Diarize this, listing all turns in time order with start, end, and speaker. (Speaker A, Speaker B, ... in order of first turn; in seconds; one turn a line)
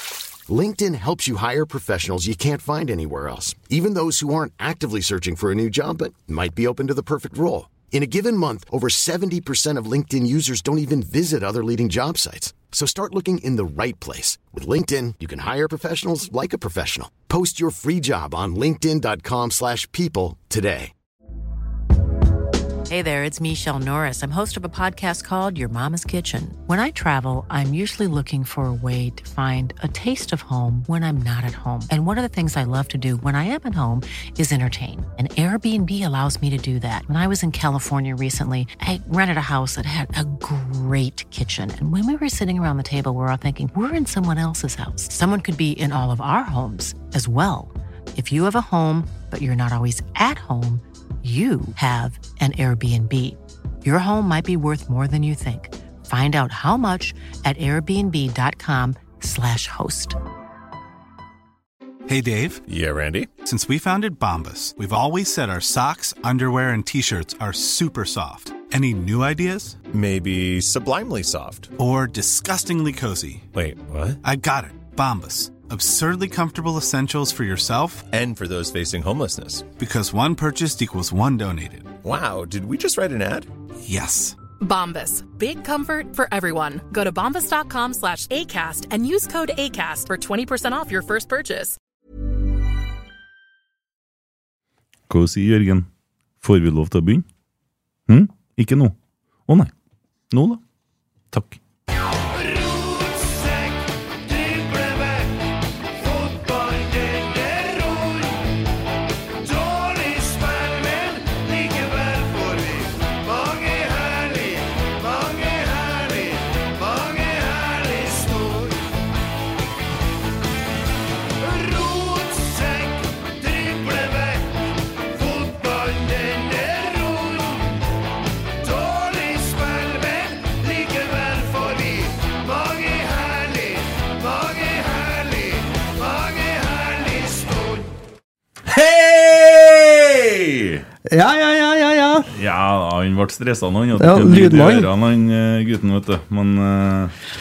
Speaker A: 0.5-20.9
Speaker B: 22.9-60.2
Speaker C: 62.1-62.6
Speaker D: 62.7-63.4
Speaker C: 63.4-69.8
Speaker D: 69.9-71.7
Speaker C: 71.8-73.5
Speaker D: 73.5-74.2
Speaker C: 74.2-78.0
Speaker D: 78.1-79.7
Speaker C: 79.8-81.9
Speaker D: 82.0-83.5
Speaker C: 83.8-84.4
Speaker E: 84.6-91.8
Speaker F: 95.1-95.9
Speaker F: 96.4-97.2
Speaker F: 98.1-98.9
Speaker F: 100.3-100.6
Speaker F: 101.3-101.6
Speaker F: 138.7-140.8
Speaker G: 141.1-142.3
Speaker F: 142.3-147.1
Speaker G: 144.0-144.9